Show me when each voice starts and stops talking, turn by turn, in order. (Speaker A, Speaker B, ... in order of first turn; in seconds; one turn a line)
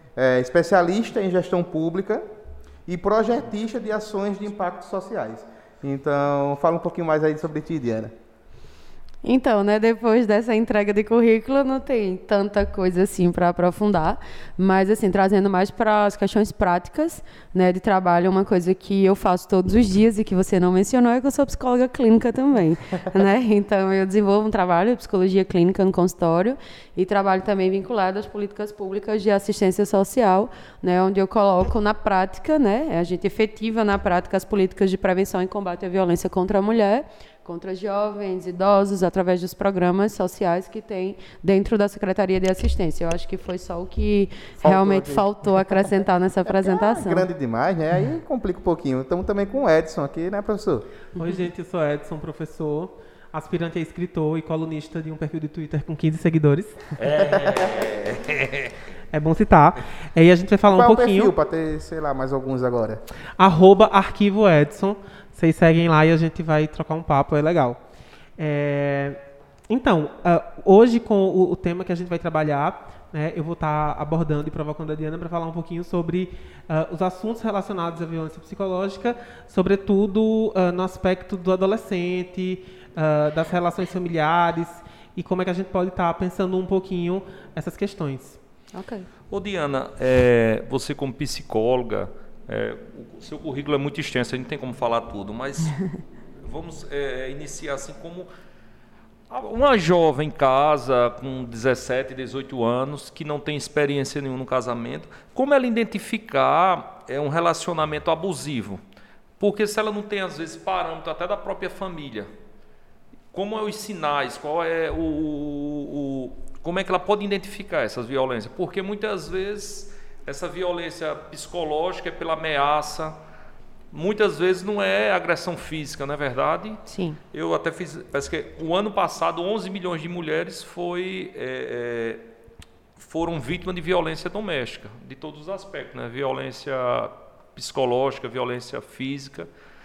Speaker A: 0.1-2.2
Speaker A: 2.9-8.1
Speaker B: 9.2-47.2
Speaker A: 44.6-45.8
Speaker A: 46.5-50.8
Speaker C: 51.1-56.8
Speaker D: 57.0-58.8
Speaker C: 59.1-61.3
Speaker A: 60.7-63.0
Speaker C: 63.4-67.8
Speaker C: 68.4-88.4
Speaker B: 88.7-89.1
Speaker D: 89.3-98.3
Speaker D: 99.3-108.8
Speaker D: 109.4-112.3
Speaker D: 113.3-123.2
Speaker D: 123.9-132.2
Speaker B: 126.9-127.2
Speaker D: 133.0-139.5